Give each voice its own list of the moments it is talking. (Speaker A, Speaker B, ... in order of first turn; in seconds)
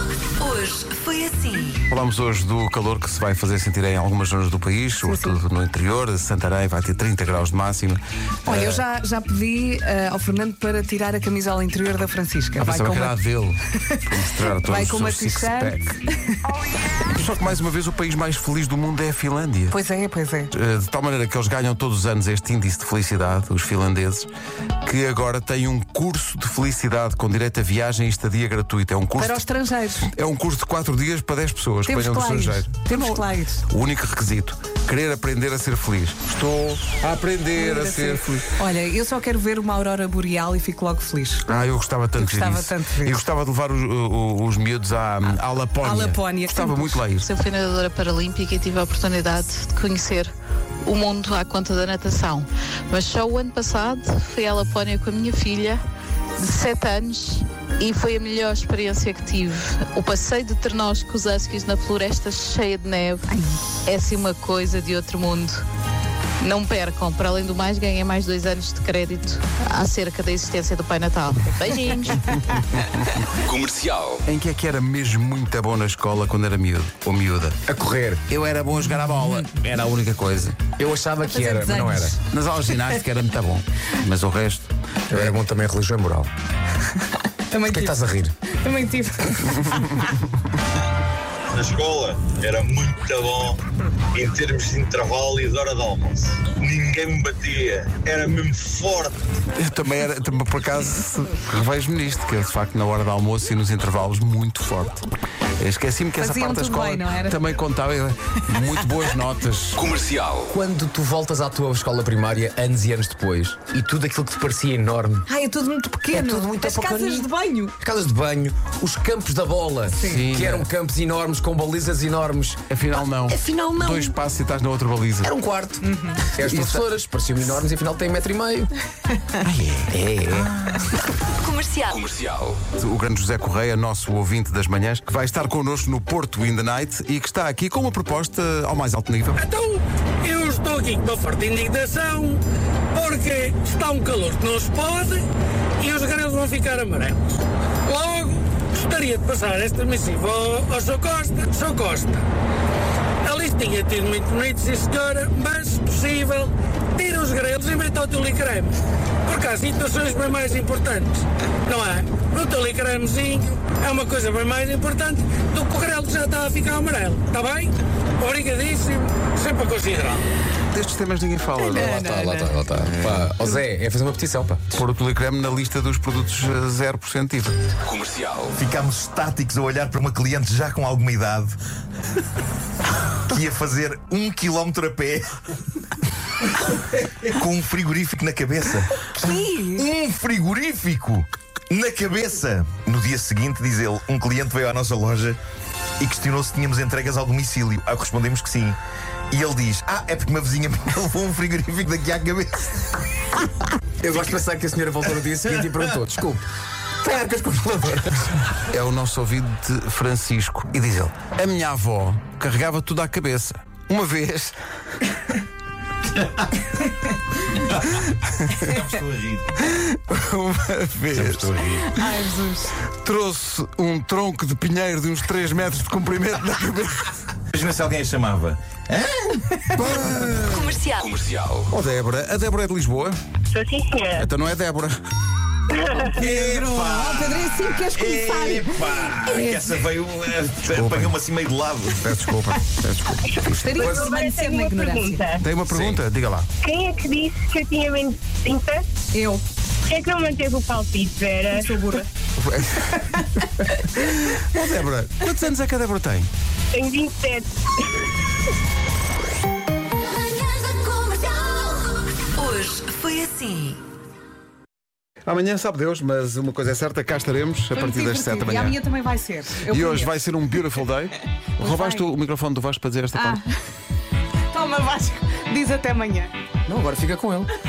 Speaker A: 0.4-1.8, 131.4-132.1, 230.5-231.2, 260.3-261.8, 262.4-263.8
Speaker B: 1.9-8.8, 12.6-15.8, 17.1-19.8, 20.5-24.3, 24.8-29.4, 30.1-38.5, 41.5-47.3, 72.2-73.2, 74.2-77.6, 78.3-80.6, 82.2-85.3, 99.5-105.1, 105.6-109.9, 120.0-120.7, 122.7-125.3, 126.4-126.8, 129.4-130.8, 132.7-139.4, 170.7-171.9, 172.8-173.2, 174.7-177.6, 208.7-214.6, 219.6-221.7, 223.0-227.1, 229.7-230.8, 231.7-233.2, 234.1-235.0, 240.7-241.2, 242.0-243.6, 245.4-246.5, 252.4-253.0, 254.0-256.3, 265.3-268.8, 269.7-273.4
Speaker C: 5.0-5.4, 8.5-16.6, 19.7-20.5, 29.2-30.1, 31.9-33.6, 37.5-41.5, 42.1-43.2, 45.2-47.1, 81.3-82.2, 82.7-83.0, 87.5-90.1, 106.2-107.5, 115.3-117.7, 119.9-120.2, 125.8-126.3, 171.6-172.7, 189.0-189.9, 221.9-222.8, 236.2-239.7, 243.4-245.4, 249.1-249.4, 251.5-252.0, 267.7-270.6, 271.6-272.0, 273.1-273.5, 274.5-276.3
Speaker D: 47.2-50.3, 50.8-55.8, 56.4-63.3, 63.9-65.6, 66.4-72.2
Speaker E: 73.4-74.2, 109.8-110.5, 131.9-132.6, 177.9-178.5, 231.0-231.7
Speaker F: 77.7-78.2, 80.8-82.2, 85.1-86.3, 87.6-88.3, 110.5-115.3, 116.1-122.6, 123.5-124.1, 125.2-128.7, 129.9-130.6, 171.7-174.7, 204.0-206.4, 207.0-208.2, 276.7-277.5
Speaker G: 91.5-93.6, 94.1-99.4
Speaker H: 139.4-142.4, 142.9-145.2, 145.8-152.3, 153.2-158.7, 159.3-170.2
Speaker I: 178.5-181.6, 183.3-185.3, 187.2-188.9, 189.8-195.4, 196.0-198.8, 199.3-202.8, 217.6-218.0, 218.6-219.6, 221.1-221.9, 227.5-229.7, 236.1-242.0, 245.7-246.0
Speaker J: 233.5-234.3, 235.7-236.0, 243.3-245.4, 246.6-248.8, 249.9-252.1, 256.7-257.5